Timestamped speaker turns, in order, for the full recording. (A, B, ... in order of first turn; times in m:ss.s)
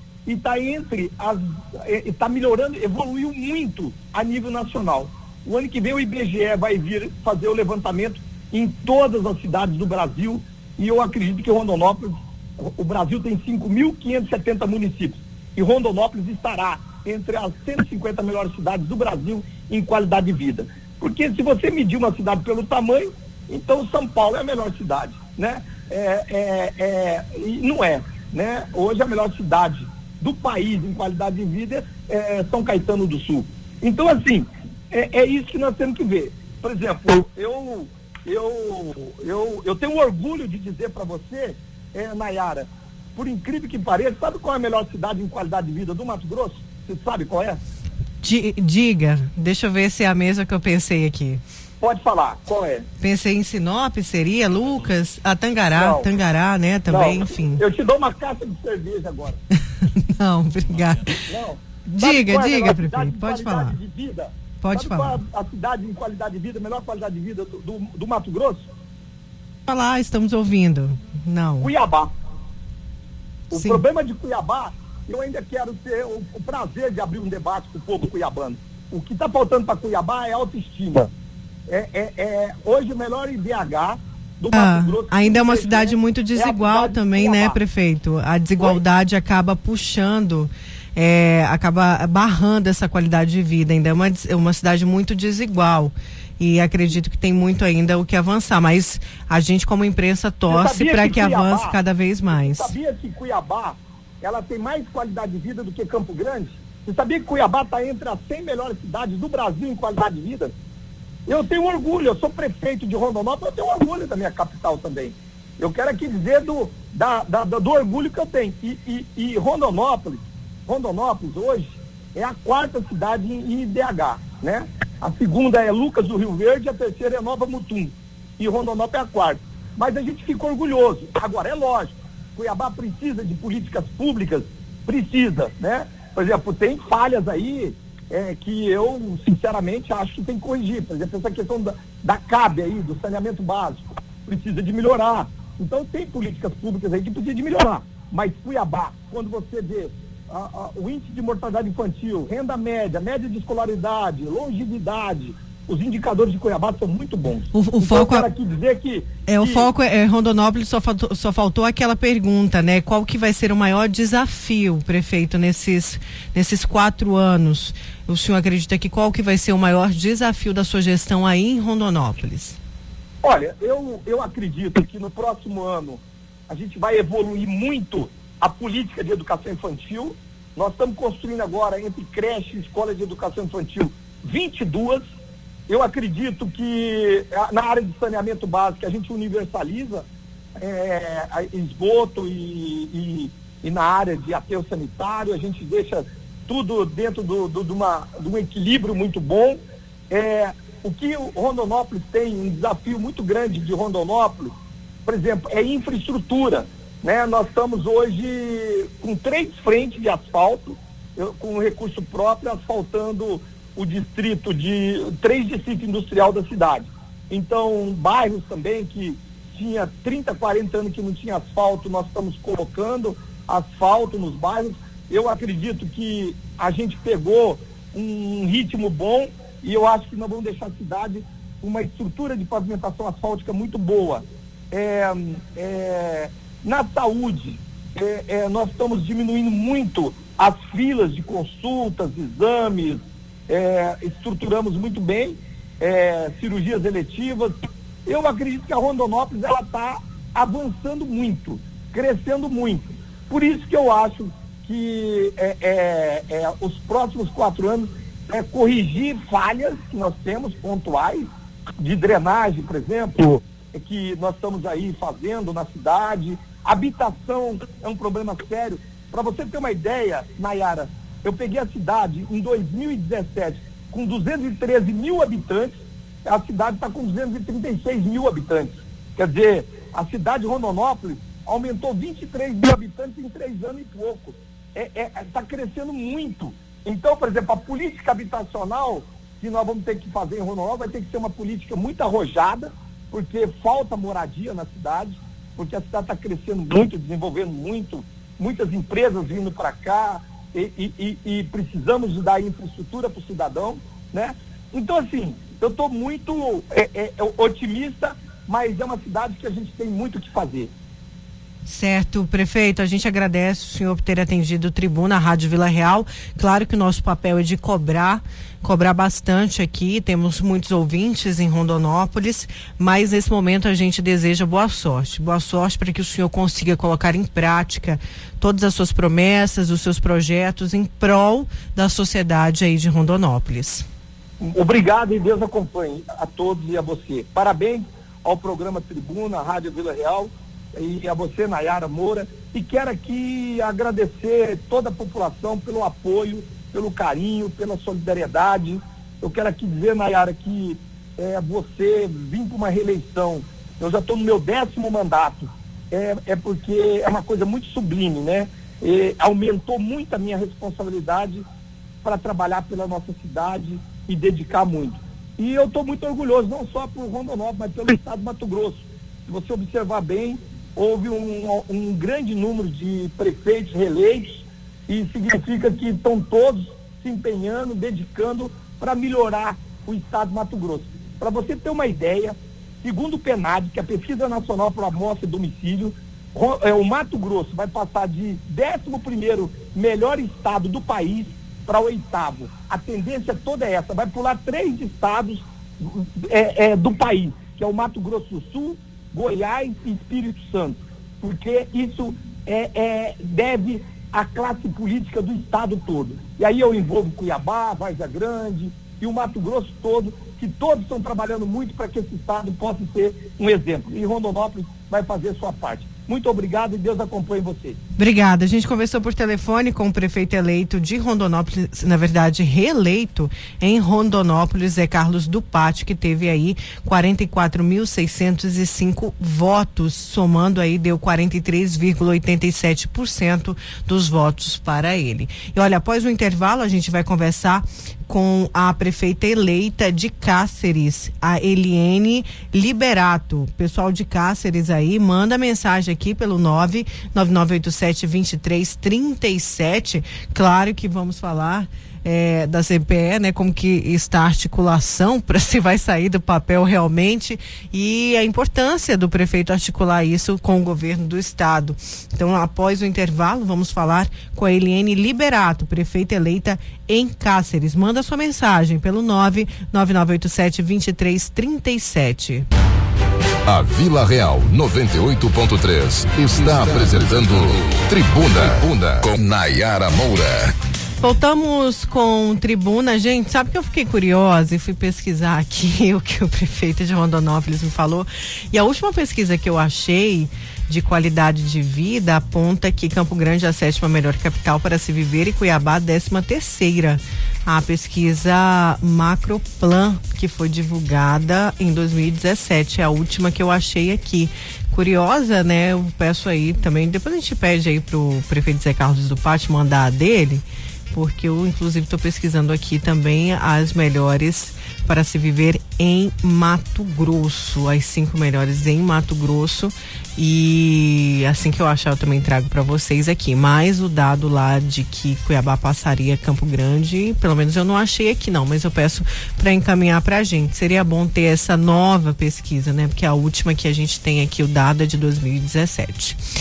0:00.2-0:47.6 A
0:48.2-0:51.4 B
0:51.8-0:52.8 A
0:53.0-0:57.6 B
0:55.7-0:56.1 A
0:56.9-0:59.4 A
0:59.8-1:01.2 B
1:01.3-1:08.7 A
1:01.8-1:03.8 B
1:04.6-1:05.2 B
1:09.7-1:11.7 B
1:11.6-1:12.1 A
1:13.5-1:21.1 A
1:13.5-1:13.8 B
1:21.7-1:27.6 A
1:24.5-1:42.7 B
1:40.5-1:41.8 A
1:42.3-1:50.5 A
1:51.3-2:39.6 A
2:37.5-2:38.3 B
2:39.3-2:52.6 B
2:53.2-3:05.0 A
3:05.7-3:10.0 A
3:10.6-3:19.6 A
3:20.1-3:24.5 A
3:25.0-4:21.3 A
4:21.8-5:10.7 A
5:11.6-5:33.8 B
5:34.4-6:01.4 A
6:02.0-6:57.8 A
6:58.0-7:52.5 B
7:53.4-8:00.5 C
8:01.0-8:56.2 B